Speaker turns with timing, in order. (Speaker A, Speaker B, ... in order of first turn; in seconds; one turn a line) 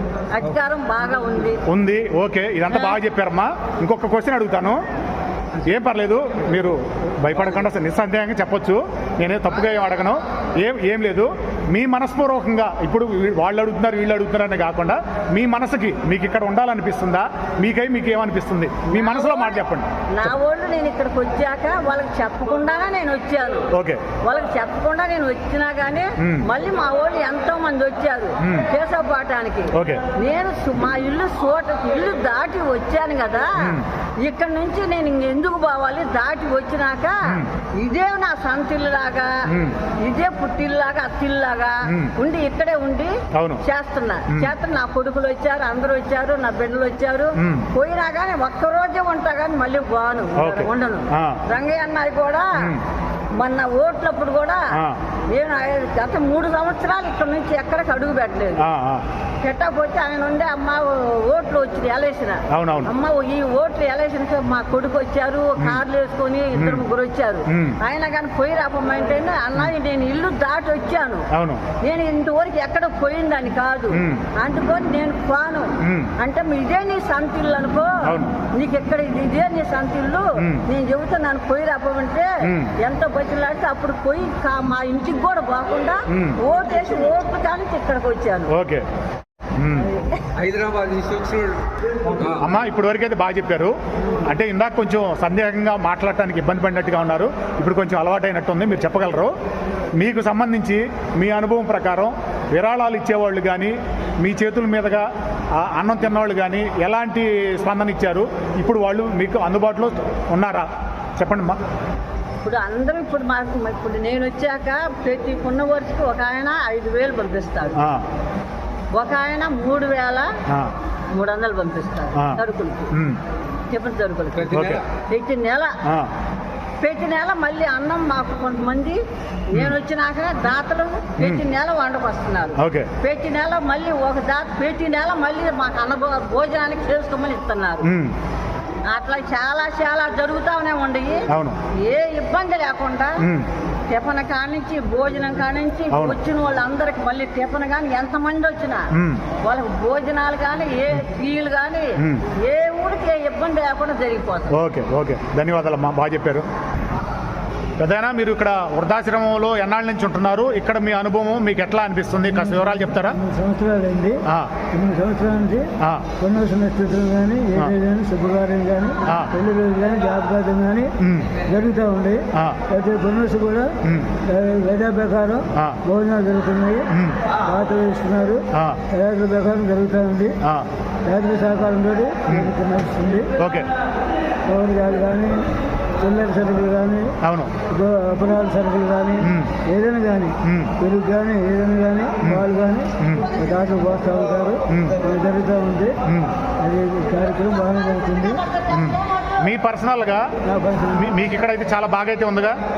Speaker A: 0.3-1.6
Speaker B: 1.6-4.8
Speaker B: 5.6-20.4
Speaker A: 18.9-19.6
Speaker A: 20.1-23.7
Speaker B: 23.7-24.0
Speaker A: 24.2-33.5
Speaker B: 26.2-26.4
Speaker B: 29.7-30.0
Speaker A: 34.2-37.2
Speaker A: 37.8-39.3
Speaker B: 39.5-39.8
Speaker A: 40.0-52.7
Speaker B: 43.3-43.6
Speaker B: 47.4-47.7
Speaker B: 50.4-51.4
Speaker A: 53.4-54.7
Speaker A: 55.3-58.6
Speaker B: 58.6-59.0
Speaker A: 59.4-71.2
Speaker B: 62.5-62.9
Speaker B: 66.5-66.8
Speaker B: 67.5-67.8
Speaker B: 71.3-71.6
Speaker A: 71.8-78.0
Speaker B: 73.9-74.2
Speaker B: 75.8-76.1
Speaker B: 78.0-78.3
Speaker A: 78.6-88.5
Speaker B: 80.4-80.6
Speaker B: 82.4-82.7
Speaker B: 86.1-86.4
Speaker B: 88.5-88.9
Speaker B: 89.5-89.9
Speaker C: 90.3-92.5
Speaker B: 92.4-99.3
Speaker B: 100.0-111.6
Speaker A: 112.4-117.8
Speaker B: 117.8-118.0
Speaker A: 119.0-120.3
Speaker A: 121.1-122.9
Speaker B: 122.2-122.4
Speaker B: 122.9-123.2
Speaker A: 123.7-125.7
Speaker B: 124.4-124.8
Speaker C: 124.5-124.8
Speaker A: 126.8-129.0
Speaker A: 129.5-137.9
Speaker B: 131.2-131.4
Speaker B: 132.6-132.9
Speaker B: 137.8-138.2
Speaker A: 138.9-141.2
Speaker B: 141.3-141.6
Speaker A: 141.8-143.2
Speaker B: 143.2-143.5
Speaker A: 143.9-148.9
Speaker B: 145.9-146.2
Speaker B: 148.9-149.2
Speaker A: 149.4-154.6
Speaker B: 152.0-152.2
Speaker B: 154.5-156.4
Speaker B: 157.8-163.2
Speaker D: 162.3-164.2
Speaker D: 164.7-173.7
Speaker B: 165.8-166.1
Speaker B: 169.1-169.3
Speaker B: 171.0-171.3
Speaker B: 173.8-174.1
Speaker D: 174.2-180.3
Speaker B: 176.9-177.2
Speaker B: 178.5-178.8
Speaker D: 181.1-183.3
Speaker B: 183.4-183.7
Speaker D: 184.5-185.4
Speaker D: 186.0-195.9
Speaker B: 187.2-187.6
Speaker B: 189.2-189.5
Speaker B: 190.4-190.7
Speaker B: 193.0-193.3
Speaker B: 194.7-195.0
Speaker B: 196.1-196.3
Speaker D: 196.6-198.4
Speaker B: 198.7-200.2
Speaker D: 200.4-201.1
Speaker B: 200.9-202.6